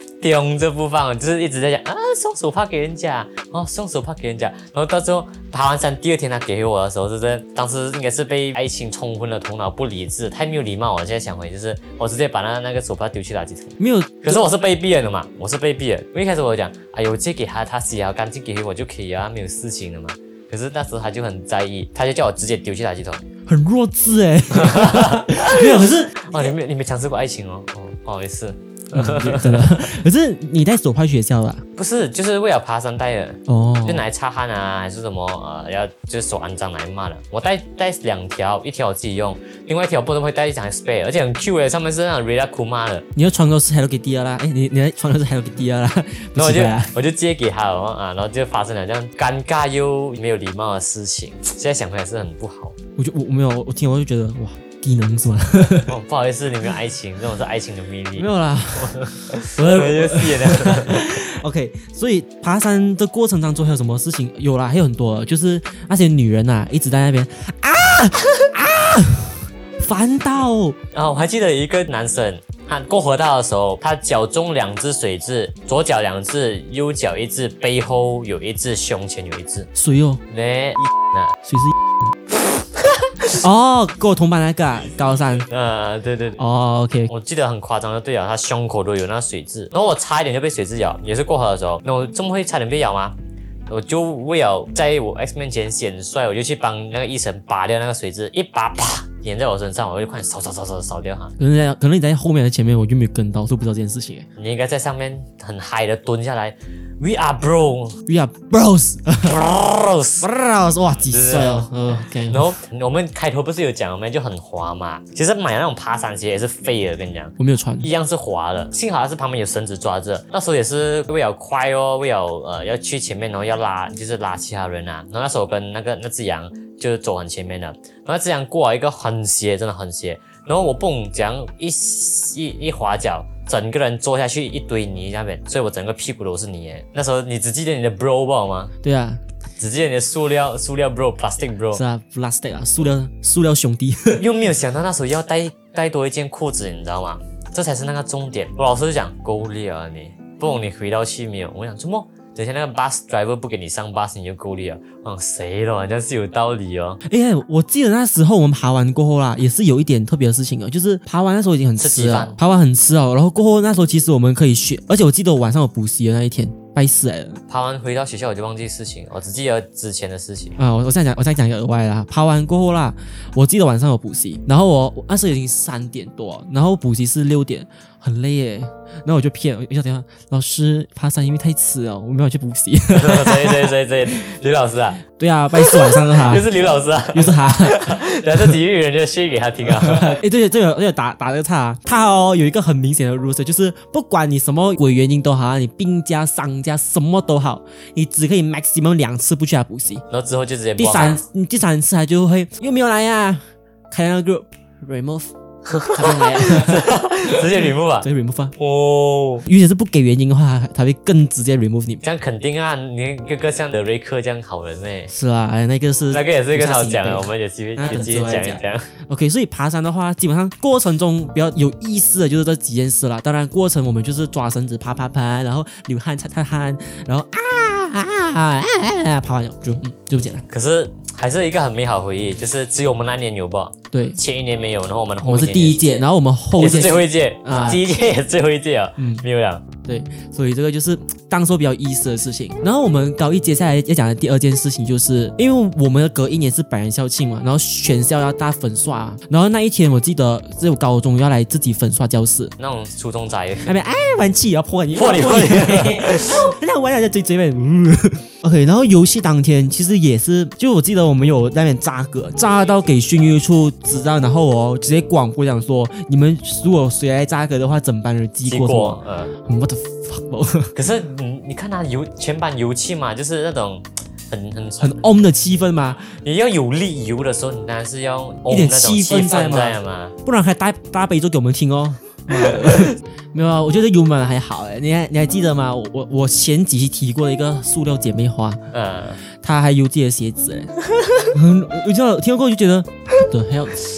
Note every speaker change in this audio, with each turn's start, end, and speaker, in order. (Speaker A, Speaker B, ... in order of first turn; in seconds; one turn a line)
Speaker A: 0.2-23.2
Speaker B: 13.8-14.5
Speaker B: 23.5-26.5
Speaker A: 24.5-29.9
Speaker B: 28.9-31.6
Speaker A: 31.8-43.0
Speaker B: 33.5-34.1
Speaker B: 43.1-46.9
Speaker A: 46.4-52.8
Speaker B: 53.0-55.9
Speaker A: 55.9-58.3
Speaker B: 58.2-70.8
Speaker A: 58.8-61.2
Speaker A: 70.9-79.7
Speaker B: 79.8-80.2
Speaker A: 80.3-81.3
Speaker B: 81.4-81.8
Speaker B: 83.4-85.5
Speaker A: 85.5-86.4
Speaker B: 86.4-87.1
Speaker A: 87.1-93.1
Speaker A: 93.7-101.3
Speaker B: 101.4-104.3
Speaker A: 104.4-108.0
Speaker B: 108.0-109.4
Speaker A: 109.2-110.3
Speaker B: 110.2-112.5
Speaker A: 111.1-138.7
Speaker B: 117.4-117.9
Speaker B: 138.8-139.2
Speaker A: 139.6-141.8
Speaker B: 141.7-144.2
Speaker A: 144.1-157.0
Speaker B: 157.0-167.4
Speaker A: 161.8-162.4
Speaker A: 167.5-170.6
Speaker B: 170.6-183.7
Speaker A: 182.9-185.0
Speaker B: 185.2-188.6
Speaker A: 185.6-190.2
Speaker B: 189.7-200.0
Speaker A: 200.1-201.2
Speaker B: 200.8-208.5
Speaker A: 205.8-209.5
Speaker B: 209.5-212.0
Speaker A: 212.0-215.1
Speaker B: 215.1-230.4
Speaker A: 216.1-218.9
Speaker A: 230.5-236.0
Speaker B: 233.9-234.2
Speaker B: 235.2-237.8
Speaker A: 236.6-239.6
Speaker B: 239.0-239.2
Speaker B: 239.8-252.5
Speaker A: 252.6-253.8
Speaker B: 253.6-270.7
Speaker A: 254.9-256.5
Speaker A: 268.4-269.3
Speaker A: 270.8-275.0
Speaker B: 274.8-276.0
Speaker A: 276.0-280.1
Speaker B: 278.5-288.6
Speaker A: 288.7-289.2
Speaker B: 289.4-290.8
Speaker B: 291.3-293.8